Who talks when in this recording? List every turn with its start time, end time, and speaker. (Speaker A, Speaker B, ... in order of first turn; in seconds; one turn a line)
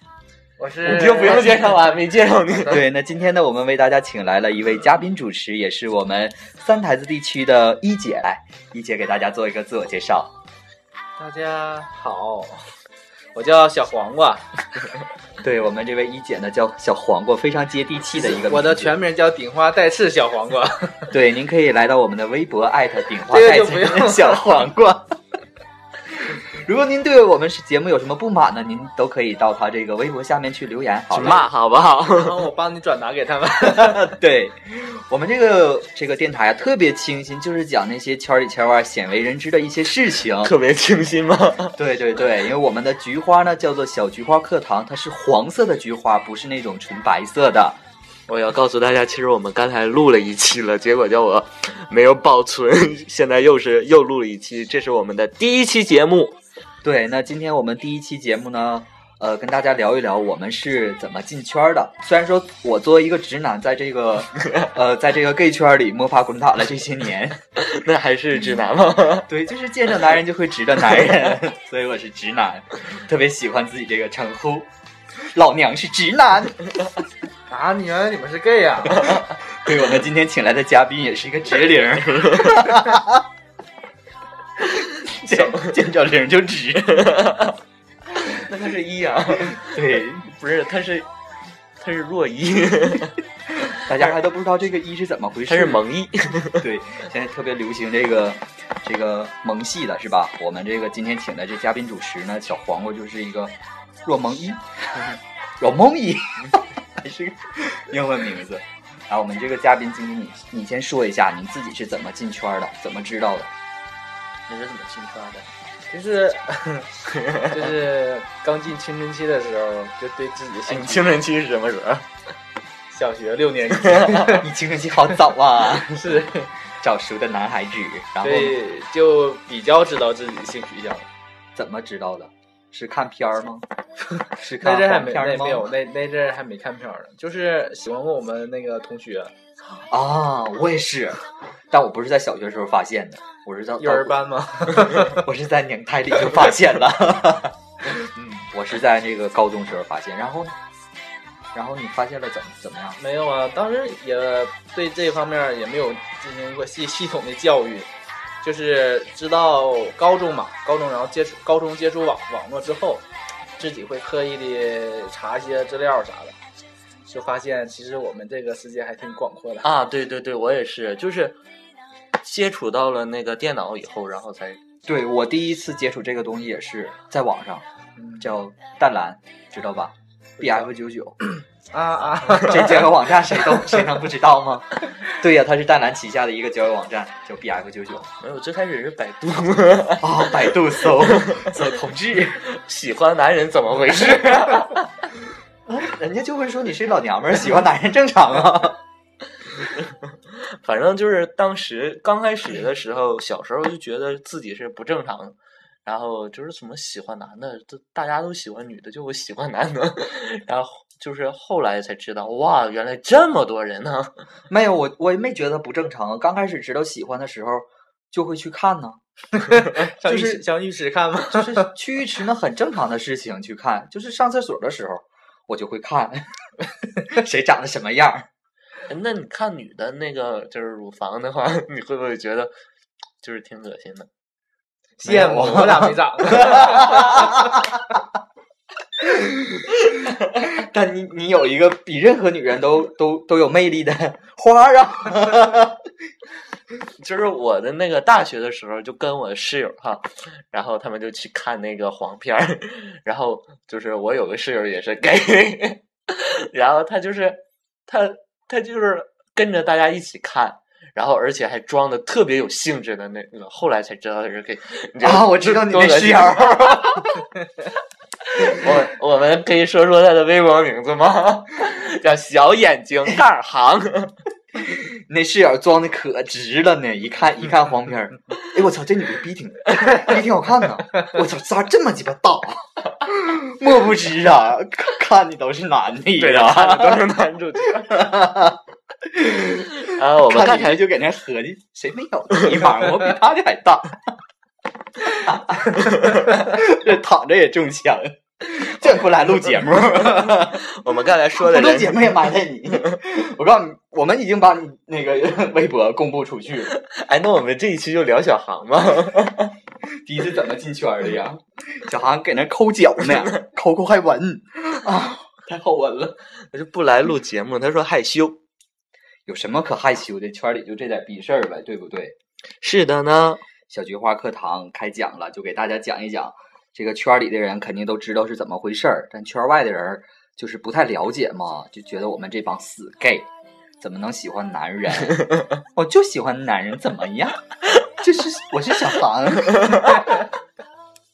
Speaker A: 0.6-1.9
Speaker B: 0.8-2.8
Speaker C: 2.6-10.3
Speaker A: 11.2-12.7
Speaker A: 13.3-14.6
Speaker C: 15.4-18.9
Speaker A: 18.1-21.1
Speaker C: 21.1-25.1
Speaker A: 23.3-24.5
Speaker C: 26.1-31.5
Speaker B: 31.1-32.4
Speaker A: 32.1-34.2
Speaker C: 33.6-40.5
Speaker B: 40.4-41.8
Speaker C: 41.8-47.8
Speaker B: 48.3-56.4
Speaker C: 56.8-67.4
Speaker B: 67.5-69.3
Speaker C: 69.3-74.7
Speaker C: 75.2-77.0
Speaker A: 77.5-79.1
Speaker C: 79.1-83.2
Speaker C: 84.6-87.4
Speaker B: 87.2-87.5
Speaker B: 88.3-91.1
Speaker C: 89.5-90.3
Speaker B: 91.8-93.2
Speaker C: 93.7-95.8
Speaker B: 95.5-96.6
Speaker C: 96.5-113.5
Speaker B: 114.5-115.5
Speaker A: 115.9-121.2
Speaker B: 117.1-117.5
Speaker B: 120.7-122.1
Speaker A: 122.9-124.5
Speaker B: 123.9-124.3
Speaker C: 124.3-126.3
Speaker A: 125.8-126.5
Speaker C: 126.8-128.6
Speaker A: 128.2-131.1
Speaker C: 131.6-133.7
Speaker C: 134.3-135.7
Speaker A: 134.6-139.3
Speaker C: 139.8-144.2
Speaker A: 143.8-145.2
Speaker C: 144.7-150.6
Speaker C: 151.5-153.0
Speaker A: 153.0-157.9
Speaker A: 158.4-163.1
Speaker A: 163.6-166.4
Speaker A: 167.1-169.7
Speaker B: 169.6-171.4
Speaker B: 172.2-174.6
Speaker C: 174.8-177.7
Speaker A: 178.0-178.3
Speaker C: 178.2-181.2
Speaker A: 180.4-180.7
Speaker A: 181.7-183.6
Speaker C: 182.3-188.1
Speaker B: 188.2-190.3
Speaker C: 190.0-192.4
Speaker B: 192.4-194.9
Speaker C: 195.7-198.8
Speaker B: 200.3-214.2
Speaker C: 214.5-219.0
Speaker A: 219.4-221.7
Speaker C: 220.0-220.4
Speaker C: 221.3-228.3
Speaker B: 228.9-232.5
Speaker B: 233.2-234.1
Speaker A: 235.0-237.4
Speaker C: 235.0-237.9
Speaker C: 239.0-245.8
Speaker B: 247.0-267.0
Speaker C: 265.0-267.2
Speaker B: 268.3-274.1
Speaker C: 274.6-287.1
Speaker B: 286.2-288.0
Speaker C: 287.8-294.1
Speaker B: 289.8-290.9
Speaker C: 295.0-300.6
Speaker B: 300.3-302.1
Speaker C: 301.3-306.7
Speaker B: 306.7-309.5
Speaker C: 309.9-316.2
Speaker B: 316.5-318.4
Speaker C: 319.2-322.1
Speaker B: 322.6-323.4
Speaker C: 323.7-333.3
Speaker C: 333.8-340.2